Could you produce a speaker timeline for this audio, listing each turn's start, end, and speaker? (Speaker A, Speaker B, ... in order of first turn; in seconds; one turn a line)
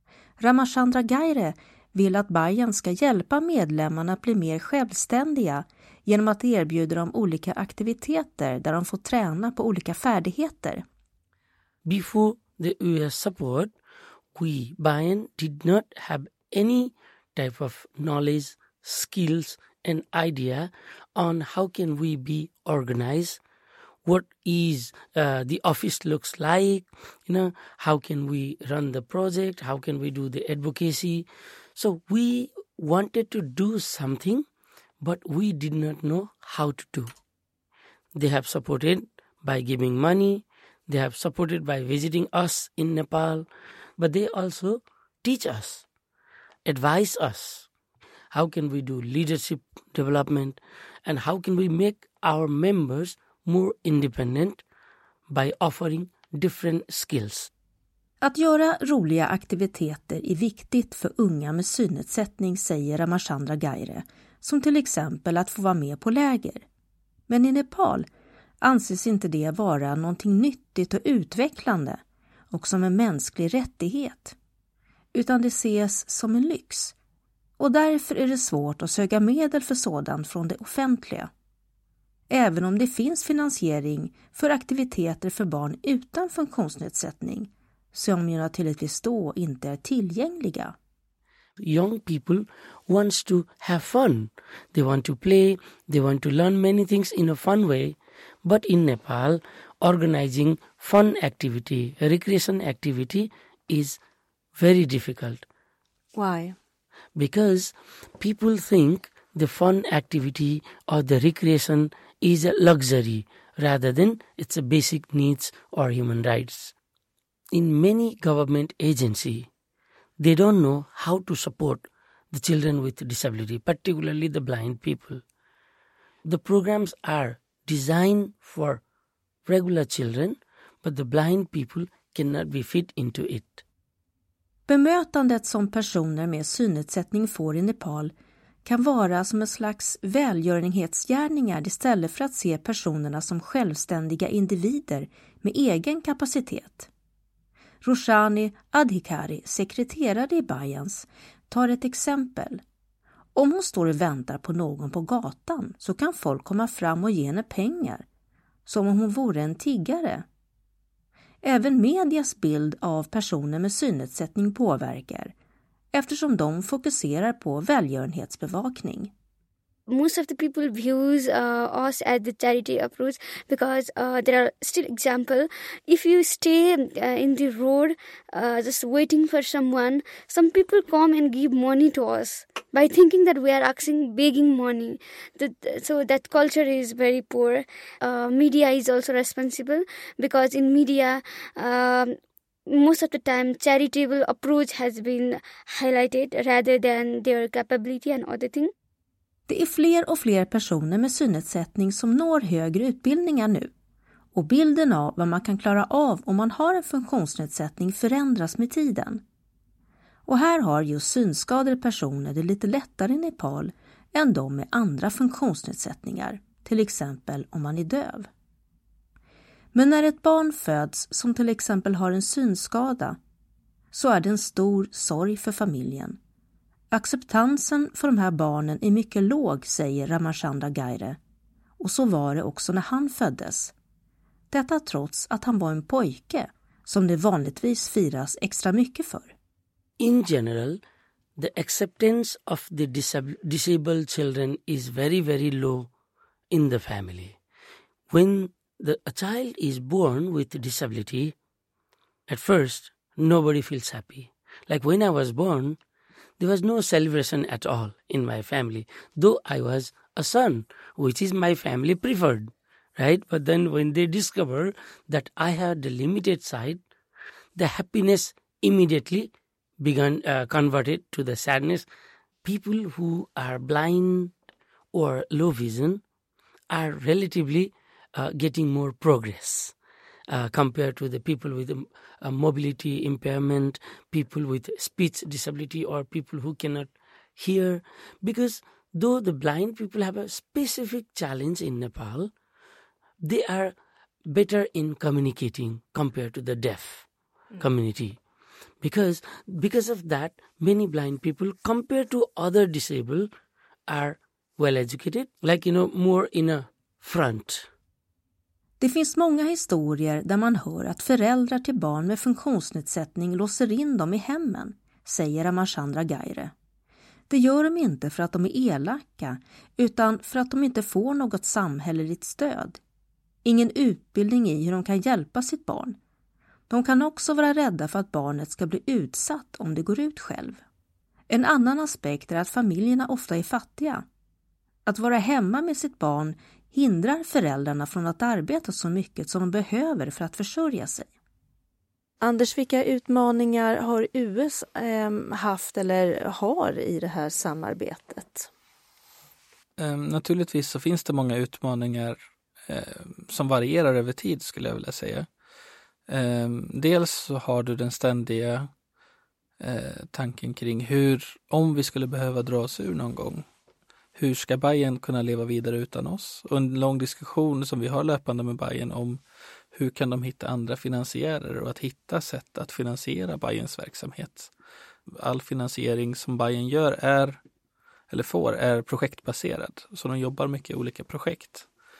Speaker A: 0.4-10.8
Speaker B: 11.8-13.7
Speaker B: 14.3-23.4
Speaker B: 24.1-34.5
Speaker B: 35.0-37.1
Speaker B: 38.1-45.9
Speaker B: 46.6-47.7
Speaker B: 48.3-54.6
Speaker B: 55.3-57.5
Speaker A: 58.2-66.7
Speaker A: 67.3-68.1
Speaker A: 68.6-72.0
Speaker A: 72.5-74.4
Speaker A: 75.1-77.0
Speaker A: 77.6-81.3
Speaker A: 82.3-90.8
Speaker B: 91.6-104.0
Speaker B: 104.6-105.4
Speaker C: 106.2-106.5
Speaker B: 107.2-116.7
Speaker B: 117.5-119.5
Speaker B: 120.2-125.2
Speaker B: 126.2-128.8
Speaker B: 129.5-133.6
Speaker A: 134.7-138.1
Speaker A: 138.7-146.9
Speaker A: 147.8-152.6
Speaker A: 153.3-158.1
Speaker A: 158.7-160.2
Speaker A: 161.4-165.3
Speaker A: 165.9-169.1
Speaker D: 169.9-192.2
Speaker D: 192.7-198.7
Speaker A: 199.5-203.7
Speaker A: 204.3-209.2
Speaker A: 210.3-218.3
Speaker A: 219.7-223.2
Speaker A: 223.9-226.2
Speaker A: 226.9-231.2
Speaker A: 231.8-233.7
Speaker A: 234.5-239.3
Speaker B: 240.0-240.8
Speaker B: 241.4-245.9
Speaker B: 246.5-247.4
Speaker B: 248.1-251.3
Speaker B: 252.3-255.8
Speaker B: 256.4-266.8
Speaker B: 267.6-271.9
Speaker B: 272.4-274.3
Speaker B: 274.9-276.0
Speaker B: 276.7-279.8
Speaker B: 280.3-292.3
Speaker B: 293.2-293.8
Speaker B: 294.3-297.1
Speaker B: 297.6-298.2
Speaker B: 298.8-303.3
Speaker B: 303.9-307.7
Speaker A: 308.8-316.5
Speaker A: 317.3-322.8
Speaker A: 323.4-325.9
Speaker A: 326.7-330.6
Speaker A: 331.3-334.0
Speaker A: 334.9-341.1
Speaker C: 342.2-348.5
Speaker A: 343.3-343.7
Speaker E: 349.8-355.3
Speaker E: 356.1-358.7
Speaker E: 359.6-363.4
Speaker E: 364.1-369.2
Speaker E: 369.7-374.5
Speaker E: 375.2-377.4
Speaker E: 378.1-381.7